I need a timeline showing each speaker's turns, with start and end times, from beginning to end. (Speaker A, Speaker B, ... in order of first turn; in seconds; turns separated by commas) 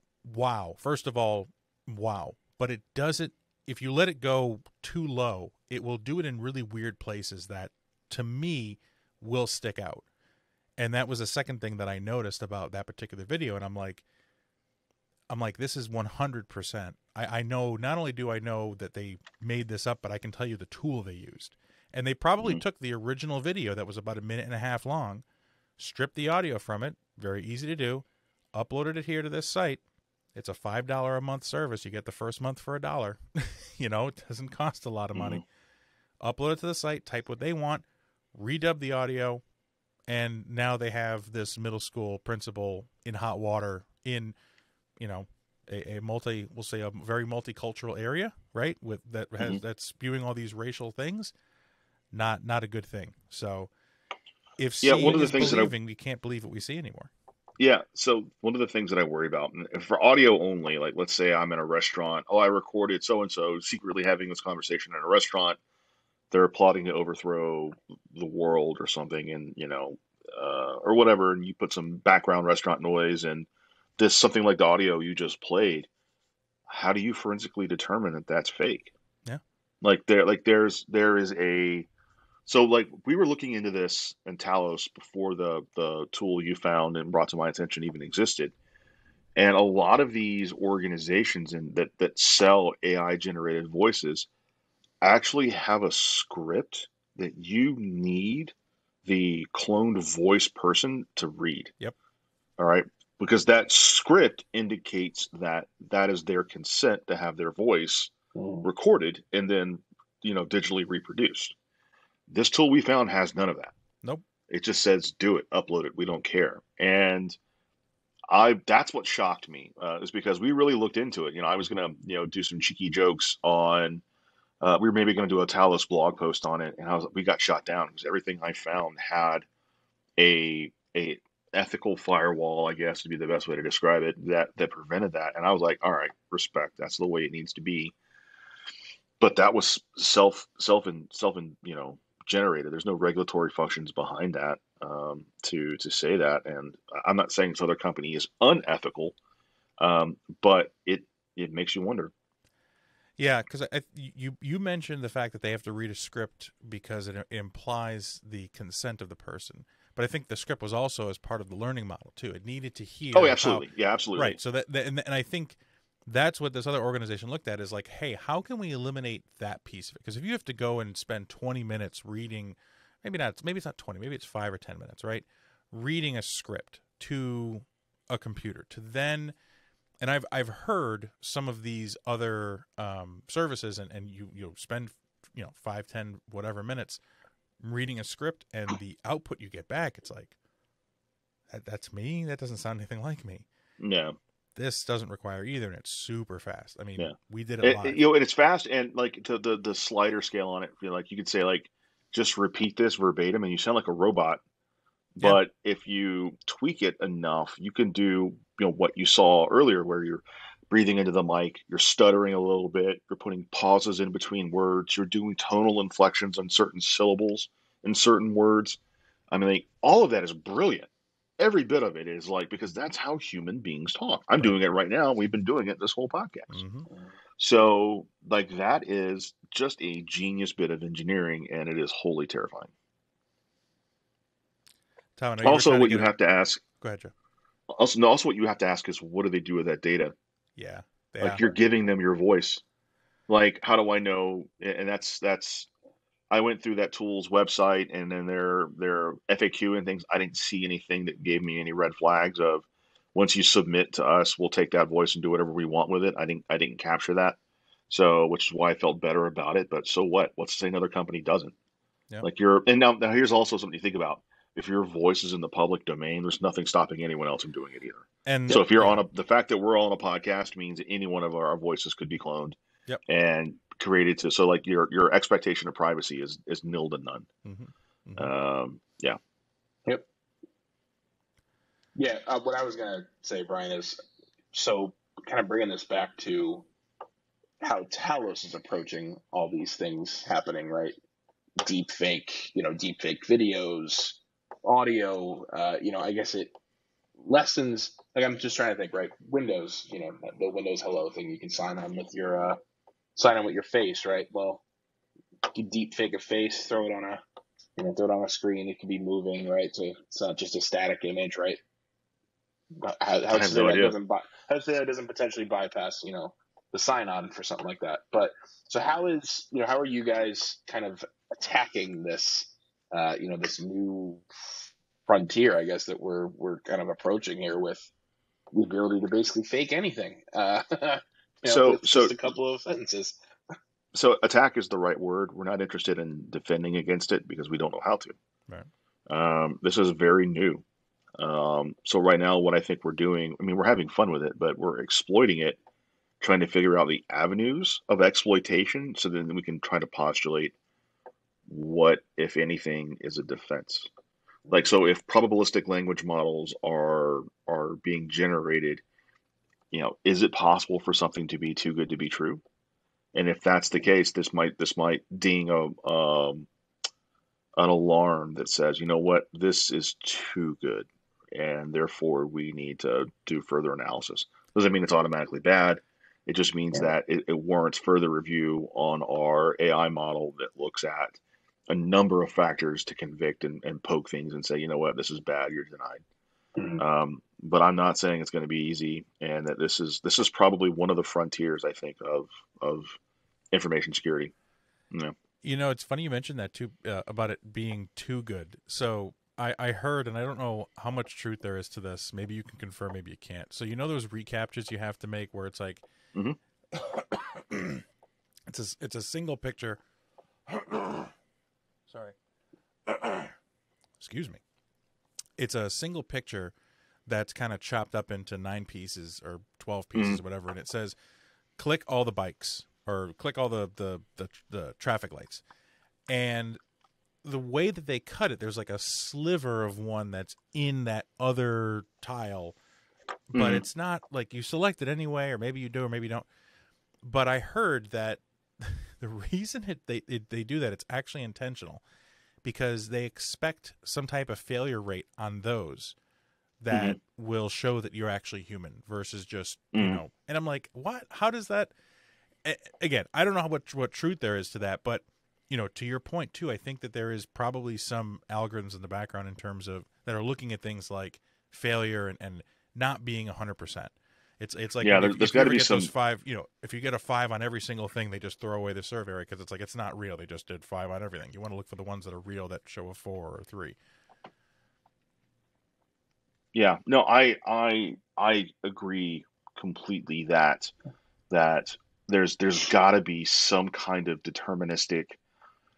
Speaker A: 0.2-10.1, Speaker A: 10.8-14.0, Speaker A: 15.3-25.2, Speaker A: 25.8-29.8, Speaker A: 30.3-35.4, Speaker B: 35.1-35.4, Speaker A: 36.2-39.4, Speaker A: 40.1-44.3, Speaker A: 45.0-51.3, Speaker A: 52.1-53.7, Speaker A: 54.6-57.1, Speaker B: 54.8-55.7, Speaker B: 57.6-65.6, Speaker B: 66.3-75.9, Speaker B: 76.7-78.9, Speaker B: 79.8-81.9, Speaker B: 82.5-88.5, Speaker B: 89.3-94.3, Speaker B: 95.0-101.7, Speaker B: 102.6-108.1, Speaker C: 108.3-108.7, Speaker B: 108.6-111.5, Speaker B: 112.3-113.7, Speaker B: 114.5-117.4, Speaker B: 118.3-124.0, Speaker B: 124.6-129.5, Speaker B: 130.2-137.9, Speaker B: 139.2-149.2, Speaker B: 149.8-152.1, Speaker A: 153.2-179.3, Speaker B: 163.1-164.4, Speaker A: 180.0-187.0, Speaker A: 187.6-190.4, Speaker A: 191.5-193.5, Speaker B: 193.8-194.2, Speaker A: 194.5-198.0, Speaker B: 197.0-204.4, Speaker B: 205.1-218.8, Speaker B: 219.3-226.6, Speaker A: 226.5-226.9, Speaker B: 227.4-232.7, Speaker A: 235.2-236.1, Speaker B: 235.4-236.6, Speaker A: 236.8-237.1, Speaker B: 237.7-240.1, Speaker A: 240.6-241.4, Speaker B: 241.2-242.6, Speaker B: 243.3-245.7, Speaker B: 246.3-257.4, Speaker B: 257.9-261.5, Speaker B: 262.2-277.3, Speaker A: 268.2-269.0, Speaker A: 277.4-278.3, Speaker B: 278.2-279.2, Speaker C: 281.9-284.0, Speaker C: 284.5-286.6, Speaker C: 287.6-290.9, Speaker C: 291.6-296.5, Speaker C: 297.2-302.6, Speaker C: 303.1-304.6, Speaker C: 305.5-307.2, Speaker C: 307.8-311.6, Speaker C: 312.8-327.9, Speaker B: 313.3-313.9, Speaker C: 328.5-333.2, Speaker B: 331.4-332.1, Speaker B: 333.9-338.2, Speaker B: 339.1-340.6, Speaker B: 341.2-345.6, Speaker B: 346.2-350.5, Speaker B: 351.5-353.9, Speaker B: 354.5-358.8, Speaker B: 359.7-362.4, Speaker B: 363.1-366.5, Speaker B: 367.6-386.0, Speaker C: 386.6-386.8, Speaker B: 386.8-393.0, Speaker B: 393.5-394.3, Speaker A: 395.4-405.8, Speaker A: 406.7-407.8, Speaker A: 408.5-409.8, Speaker A: 410.5-411.1, Speaker A: 411.9-412.1, Speaker A: 412.9-413.3, Speaker A: 414.0-414.4, Speaker A: 415.4-416.5, Speaker A: 417.1-420.9, Speaker B: 419.9-420.2, Speaker A: 421.6-425.4, Speaker A: 426.1-426.6, Speaker A: 427.2-432.6, Speaker A: 433.3-436.2, Speaker B: 433.3-433.6, Speaker A: 437.0-441.8, Speaker A: 442.4-445.9, Speaker A: 446.6-451.7, Speaker B: 446.7-447.0, Speaker B: 449.7-450.0, Speaker A: 452.4-473.8, Speaker B: 464.8-465.9, Speaker B: 476.5-480.7, Speaker B: 481.3-485.2